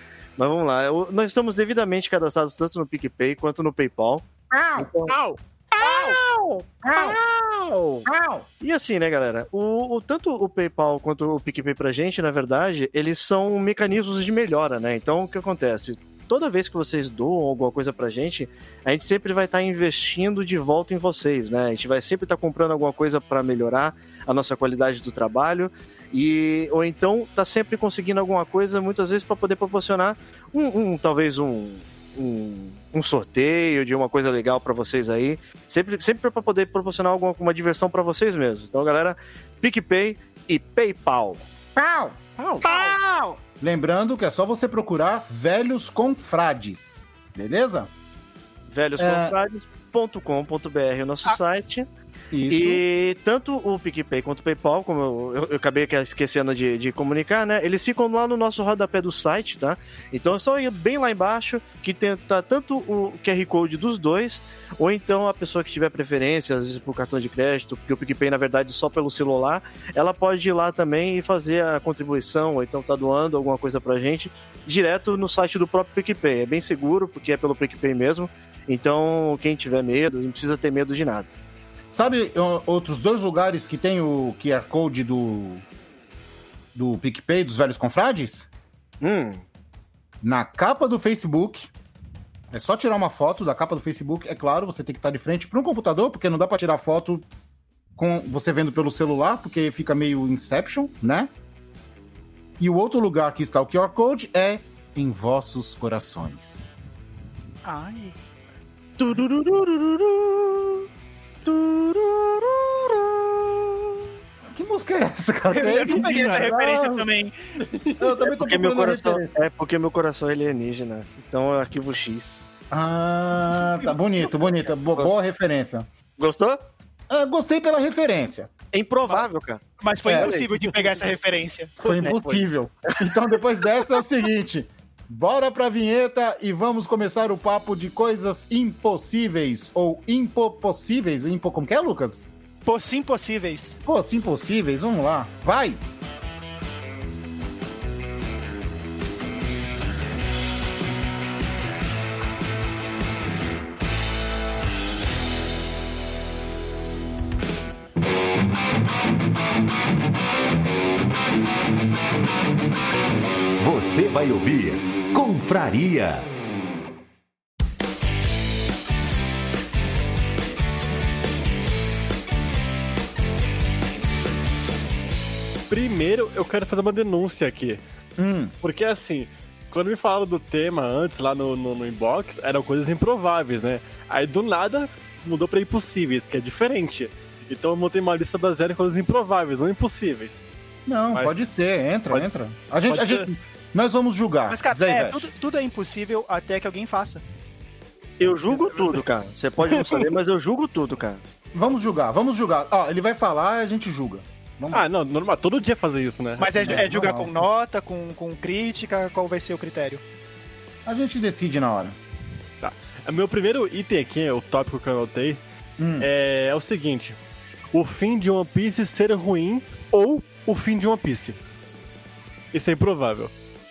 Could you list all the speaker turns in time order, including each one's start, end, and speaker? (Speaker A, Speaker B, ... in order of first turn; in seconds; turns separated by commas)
Speaker A: 0.4-5.2, Speaker B: 4.5-7.2, Speaker C: 5.8-6.2, Speaker A: 6.9-8.1, Speaker B: 8.1-8.5, Speaker A: 8.6-41.4, Speaker B: 41.8-47.9, Speaker C: 42.6-43.0, Speaker A: 48.7-51.9, Speaker B: 49.0-49.4, Speaker B: 52.3-52.8, Speaker A: 52.5-81.3, Speaker B: 81.9-85.7, Speaker B: 86.8-88.5, Speaker A: 89.0-89.4, Speaker B: 90.2-91.7, Speaker B: 92.5-97.3, Speaker B: 98.0-101.3, Speaker B: 102.6-106.8, Speaker C: 107.7-108.2, Speaker A: 109.0-110.8, Speaker A: 111.5-113.8, Speaker B: 114.5-117.1, Speaker C: 115.5-117.3, Speaker D: 115.7-116.3, Speaker D: 117.6-118.3, Speaker B: 118.0-119.4, Speaker A: 118.4-122.5, Speaker B: 122.7-125.9, Speaker A: 126.2-126.6, Speaker B: 127.1-128.5, Speaker A: 128.7-129.6, Speaker C: 129.8-131.7, Speaker B: 130.1-130.3, Speaker D: 130.6-131.0, Speaker B: 131.8-142.3, Speaker D: 131.8-132.4, Speaker C: 142.7-143.8, Speaker B: 143.8-145.8, Speaker E: 163.6-166.3, Speaker D: 175.7-177.8, Speaker B: 178.2-178.5, Speaker D: 178.6-190.4, Speaker B: 190.9-195.3, Speaker D: 192.9-193.3, Speaker C: 194.5-197.2, Speaker A: 198.2-201.2, Speaker D: 199.6-200.1, Speaker B: 201.5-204.8, Speaker D: 204.7-206.9, Speaker C: 206.4-210.0, Speaker B: 206.6-207.3, Speaker B: 210.9-212.0, Speaker D: 212.6-215.4, Speaker B: 215.8-216.1, Speaker D: 216.0-217.2, Speaker D: 217.7-221.4, Speaker D: 222.5-223.3